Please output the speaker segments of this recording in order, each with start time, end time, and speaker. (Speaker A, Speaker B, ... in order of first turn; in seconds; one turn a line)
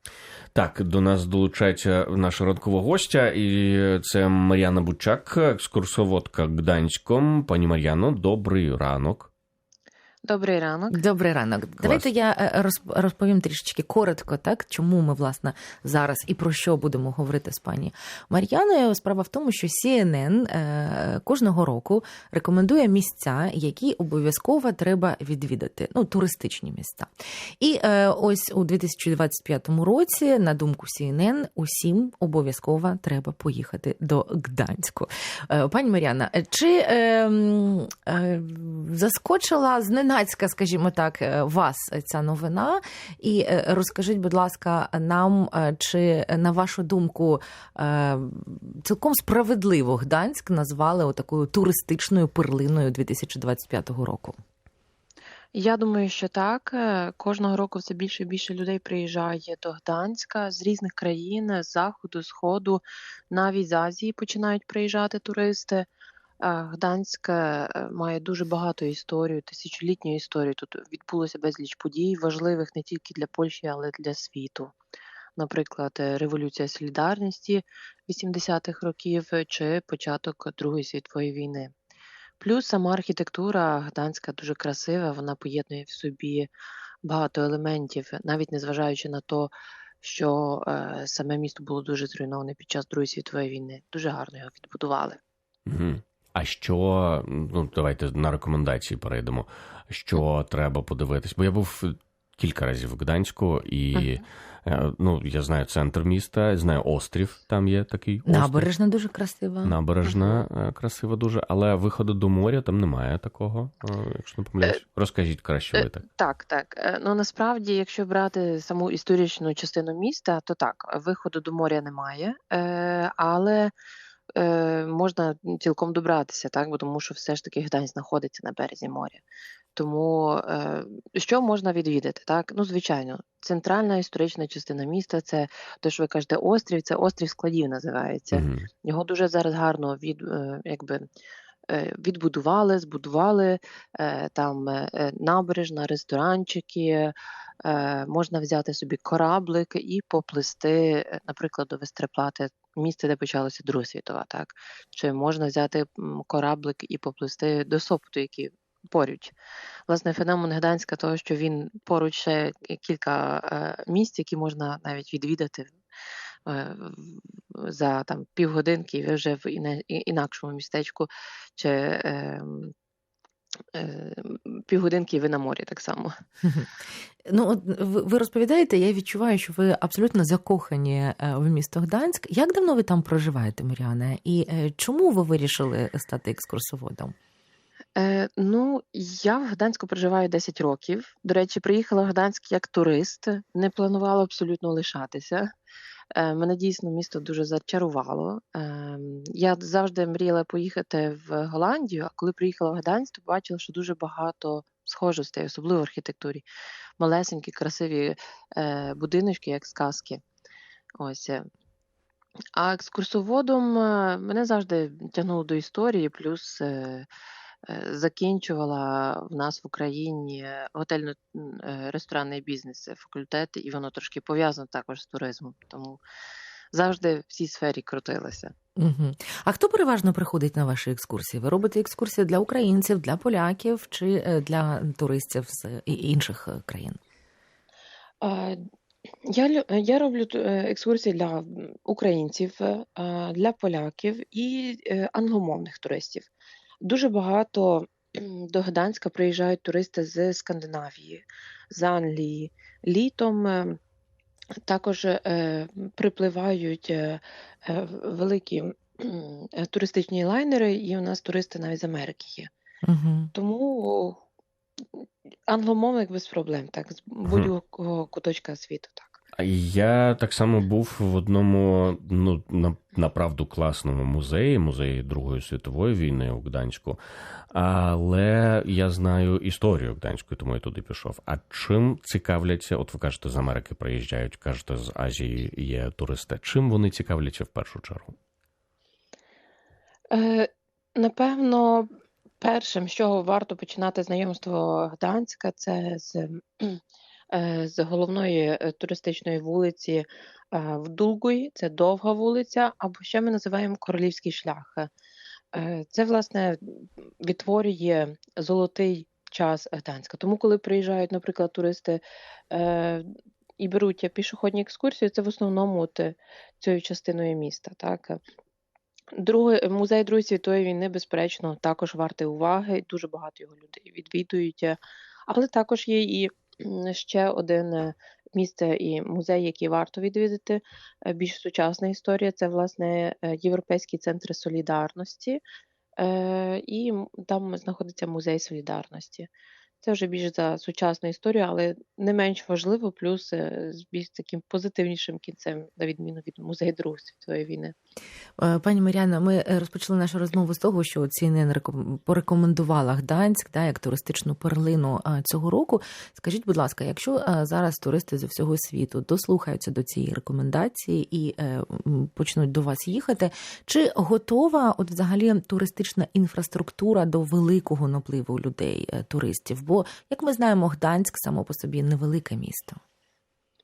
Speaker A: 0.5-9.3
Speaker B: 10.2-11.0
Speaker C: 10.9-27.1
Speaker A: 11.8-12.1
Speaker C: 27.6-54.4
Speaker B: 55.5-65.9
Speaker B: 66.4-74.7
Speaker B: 75.4-81.7
Speaker B: 82.4-86.5
Speaker B: 87.0-95.2
Speaker A: 95.7-108.7
Speaker C: 108.3-109.8
Speaker A: 109.6-116.0
Speaker B: 110.0-110.5
Speaker B: 115.7-123.7
Speaker B: 124.4-129.2
Speaker B: 129.8-141.1
Speaker A: 138.3-138.7
Speaker B: 141.7-159.3
Speaker B: 159.9-165.8
Speaker B: 166.5-172.7
Speaker B: 173.8-176.1
Speaker C: 176.4-176.7
Speaker C: 177.3-187.2
Speaker B: 188.0-195.5
Speaker B: 196.1-206.5
Speaker B: 207.0-210.2
Speaker B: 211.0-211.5
Speaker B: 212.5-217.1
Speaker B: 217.7-226.0
Speaker B: 226.7-228.5
Speaker C: 228.8-237.0
Speaker B: 238.2-238.6
Speaker B: 239.3-246.3
Speaker B: 246.8-253.8
Speaker B: 254.7-262.5
Speaker C: 262.8-263.3
Speaker B: 263.3-264.2
Speaker B: 265.0-269.2
Speaker A: 269.4-277.0
Speaker A: 277.5-288.1
Speaker B: 290.1-291.9
Speaker B: 292.4-296.8
Speaker B: 297.3-304.9
Speaker B: 305.5-313.1
Speaker B: 313.6-318.2
Speaker B: 319.1-335.4
Speaker B: 336.0-339.3
Speaker B: 339.8-347.8
Speaker C: 348.4-372.8